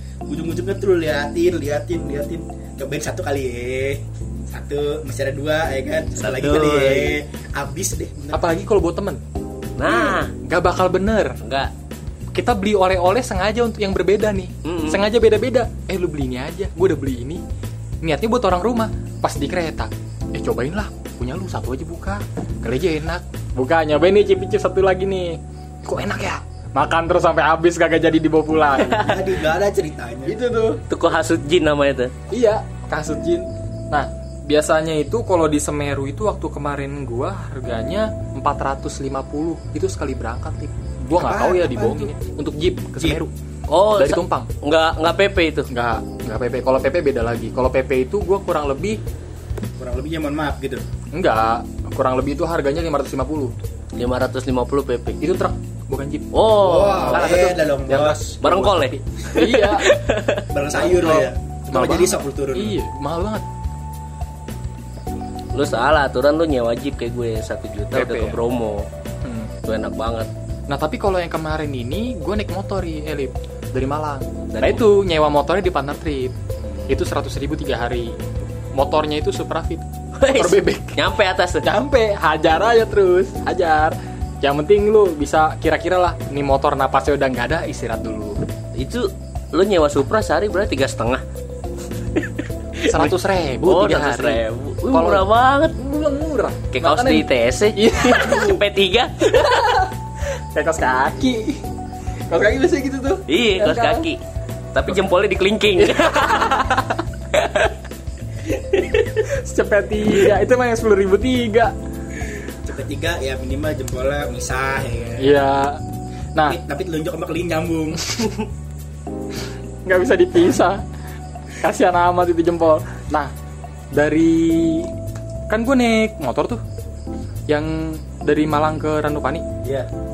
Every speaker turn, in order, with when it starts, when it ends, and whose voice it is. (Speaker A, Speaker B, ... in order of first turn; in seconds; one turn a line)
Speaker A: 0.3-8.6
Speaker B: 6.2-7.2
Speaker C: 8.3-9.2
Speaker B: 9.8-10.3
Speaker C: 9.8-11.4
Speaker B: 11.4-11.7
Speaker C: 12.3-17.4
Speaker B: 14.6-15.0
Speaker C: 18.0-29.3
Speaker A: 28.9-30.4
Speaker C: 30.2-30.8
Speaker B: 30.9-32.1
Speaker C: 32.3-43.3
Speaker A: 41.1-42.1
Speaker B: 43.7-45.7
Speaker C: 43.9-44.5
Speaker C: 45.7-49.0
Speaker A: 49.8-50.8
Speaker C: 51.1-53.5
Speaker B: 54.0-55.2
Speaker C: 55.2-56.3
Speaker B: 56.3-57.4
Speaker A: 56.6-58.4
Speaker C: 57.1-59.9
Speaker B: 58.4-60.5
Speaker A: 60.5-62.8
Speaker C: 60.7-63.4
Speaker B: 65.5-68.9
Speaker C: 67.9-68.4
Speaker C: 69.2-69.5
Speaker B: 69.6-70.3
Speaker C: 70.7-76.3
Speaker B: 74.5-74.8
Speaker C: 76.9-78.2
Speaker C: 78.7-81.0
Speaker B: 80.2-81.7
Speaker C: 81.6-88.4
Speaker B: 88.8-91.2
Speaker B: 92.1-95.7
Speaker C: 92.8-98.6
Speaker B: 96.7-99.8
Speaker C: 99.3-99.9
Speaker C: 100.5-101.6
Speaker C: 102.3-104.1
Speaker B: 103.3-104.2
Speaker B: 104.7-106.7
Speaker C: 105.8-107.0
Speaker C: 108.8-111.7
Speaker A: 112.6-115.4
Speaker C: 115.2-115.8
Speaker A: 116.5-118.2
Speaker C: 119.8-120.8
Speaker C: 121.6-123.3
Speaker C: 123.9-124.9
Speaker C: 125.5-126.6
Speaker C: 127.5-129.5